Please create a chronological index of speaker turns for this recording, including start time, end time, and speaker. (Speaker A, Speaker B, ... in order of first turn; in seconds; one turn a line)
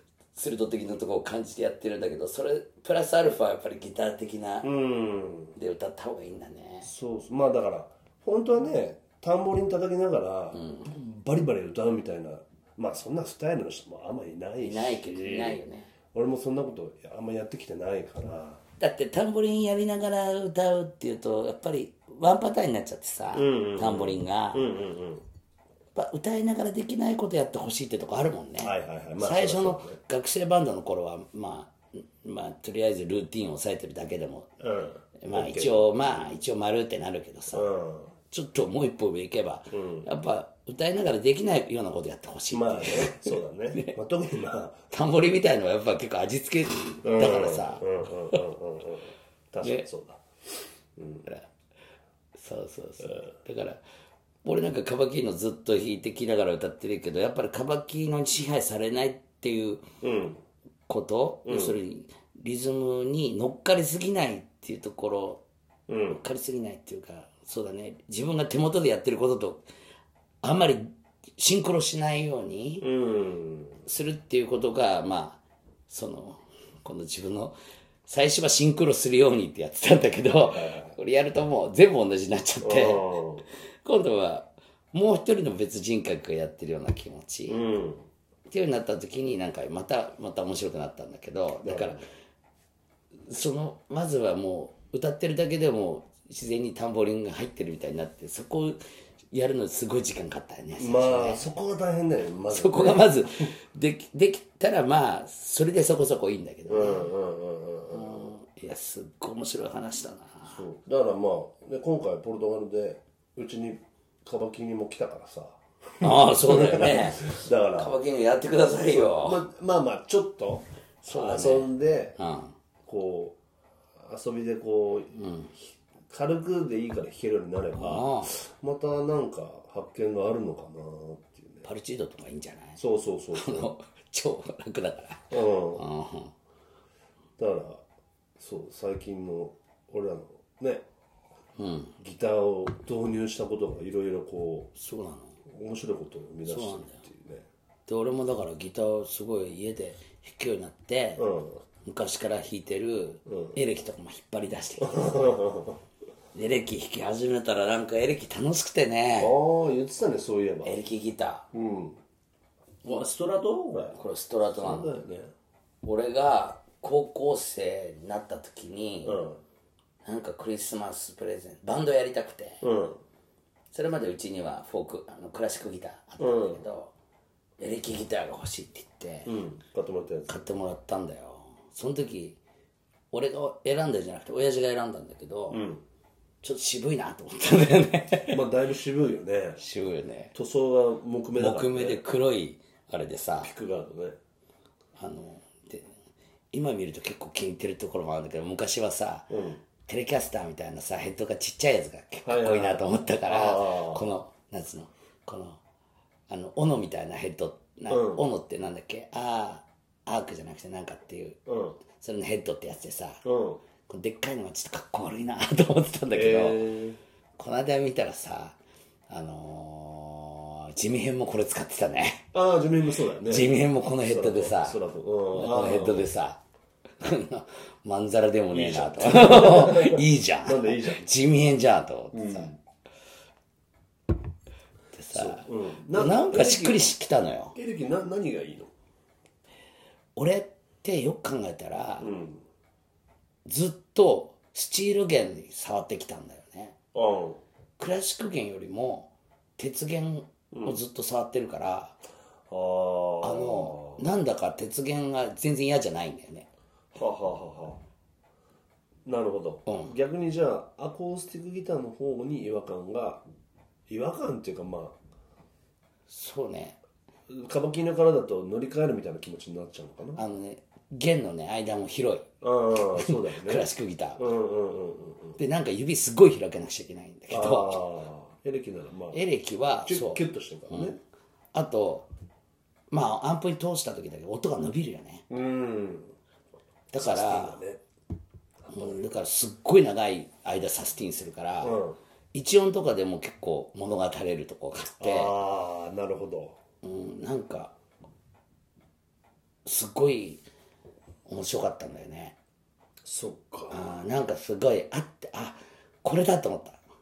Speaker A: 0.3-4.7
Speaker B: 4.6-5.5
Speaker A: 5.5-6.9
Speaker B: 6.8-15.6
Speaker A: 10.5-10.9
Speaker A: 14.6-15.9
Speaker B: 16.1-18.6
Speaker A: 18.8-24.7
Speaker B: 23.3-25.2
Speaker A: 25.9-34.5
Speaker B: 28.6-30.0
Speaker B: 34.6-36.4
Speaker A: 35.2-37.7
Speaker B: 37.5-38.1
Speaker A: 38.3-44.0
Speaker B: 39.7-40.1
Speaker B: 42.5-44.8
Speaker A: 44.9-48.4
Speaker B: 47.0-50.2
Speaker B: 51.0-51.3
Speaker A: 52.4-53.8
Speaker A: 54.4-59.9
Speaker B: 60.0-60.4
Speaker A: 60.9-65.4
Speaker B: 61.5-61.8
Speaker B: 65.9-66.2
Speaker A: 66.1-69.6
Speaker A: 70.4-72.8
Speaker B: 72.8-73.8
Speaker A: 73.8-83.2
Speaker B: 80.4-81.0
Speaker B: 82.6-83.5
Speaker A: 83.8-87.6
Speaker B: 87.5-88.0
Speaker A: 88.5-92.0
Speaker B: 91.6-92.0
Speaker A: 93.3-98.8
Speaker A: 99.3-101.5
Speaker B: 100.8-103.5
Speaker A: 102.5-107.1
Speaker B: 106.7-108.3
Speaker A: 107.9-110.6
Speaker B: 110.5-118.0
Speaker A: 116.0-119.4
Speaker B: 118.8-122.2
Speaker A: 121.0-122.5
Speaker B: 122.8-123.4
Speaker B: 124.0-125.1
Speaker A: 125.1-125.5
Speaker B: 126.1-131.6
Speaker A: 127.7-128.4
Speaker A: 131.6-132.8
Speaker B: 132.8-133.7
Speaker A: 133.3-136.3
Speaker B: 135.3-135.8
Speaker B: 137.4-137.8
Speaker B: 138.4-140.8
Speaker A: 141.6-141.9
Speaker B: 142.0-144.7
Speaker A: 144.8-145.4
Speaker B: 145.5-147.5
Speaker A: 146.4-147.0
Speaker A: 147.9-151.3
Speaker B: 151.2-151.6
Speaker A: 151.8-155.4
Speaker B: 153.3-153.6
Speaker B: 154.8-155.8
Speaker A: 156.3-159.3
Speaker B: 159.2-160.8
Speaker A: 160.6-161.5
Speaker B: 161.5-162.0
Speaker B: 162.8-164.0
Speaker A: 163.9-164.9
Speaker B: 164.5-165.3
Speaker A: 165.8-169.2
Speaker B: 169.0-169.4
Speaker A: 170.0-172.6
Speaker B: 172.6-173.0
Speaker A: 173.7-176.9
Speaker B: 176.2-176.6
Speaker A: 177.6-179.3
Speaker B: 179.2-180.3
Speaker A: 180.3-182.4
Speaker A: 183.1-185.6
Speaker B: 185.5-185.8
Speaker A: 186.4-188.4
Speaker B: 188.3-189.6
Speaker A: 189.6-190.3
Speaker B: 190.3-192.0
Speaker A: 191.4-193.5
Speaker B: 193.4-194.2
Speaker A: 195.0-195.9
Speaker A: 196.5-199.3
Speaker B: 199.3-199.6
Speaker A: 199.8-205.6
Speaker B: 202.2-204.1
Speaker A: 206.3-211.4
Speaker B: 207.9-208.2
Speaker B: 211.5-211.8
Speaker A: 211.9-213.2
Speaker B: 213.2-213.6
Speaker A: 213.9-216.6
Speaker B: 216.1-217.0
Speaker A: 217.4-218.6
Speaker A: 219.1-222.3
Speaker B: 222.3-226.1
Speaker A: 223.2-224.8
Speaker A: 225.3-226.4
Speaker A: 227.0-232.5
Speaker B: 228.5-231.1
Speaker B: 232.1-232.5
Speaker A: 234.9-237.5
Speaker B: 235.1-236.9
Speaker B: 237.5-238.7
Speaker A: 240.2-242.1
Speaker B: 242.0-242.4
Speaker A: 243.4-246.8
Speaker B: 246.9-247.4
Speaker A: 247.8-252.0
Speaker B: 250.5-250.8
Speaker B: 252.5-254.0
Speaker A: 253.2-256.5
Speaker B: 256.9-257.8
Speaker B: 259.0-263.2
Speaker A: 259.6-259.9
Speaker B: 263.9-265.0
Speaker A: 266.1-266.8
Speaker B: 267.3-270.2
Speaker A: 270.1-274.2
Speaker B: 272.4-275.4
Speaker A: 275.4-277.8
Speaker B: 277.3-279.2
Speaker A: 279.1-281.0
Speaker B: 279.8-281.0
Speaker A: 281.5-282.1
Speaker A: 282.9-285.2
Speaker B: 285.3-286.1
Speaker A: 286.9-287.6
Speaker B: 286.9-287.8
Speaker B: 288.6-289.0
Speaker A: 288.7-291.8
Speaker B: 291.6-292.0
Speaker A: 292.3-295.3
Speaker B: 295.0-296.6
Speaker A: 296.8-297.7
Speaker A: 299.6-300.4
Speaker A: 301.2-302.4
Speaker B: 303.0-303.8
Speaker A: 303.7-306.8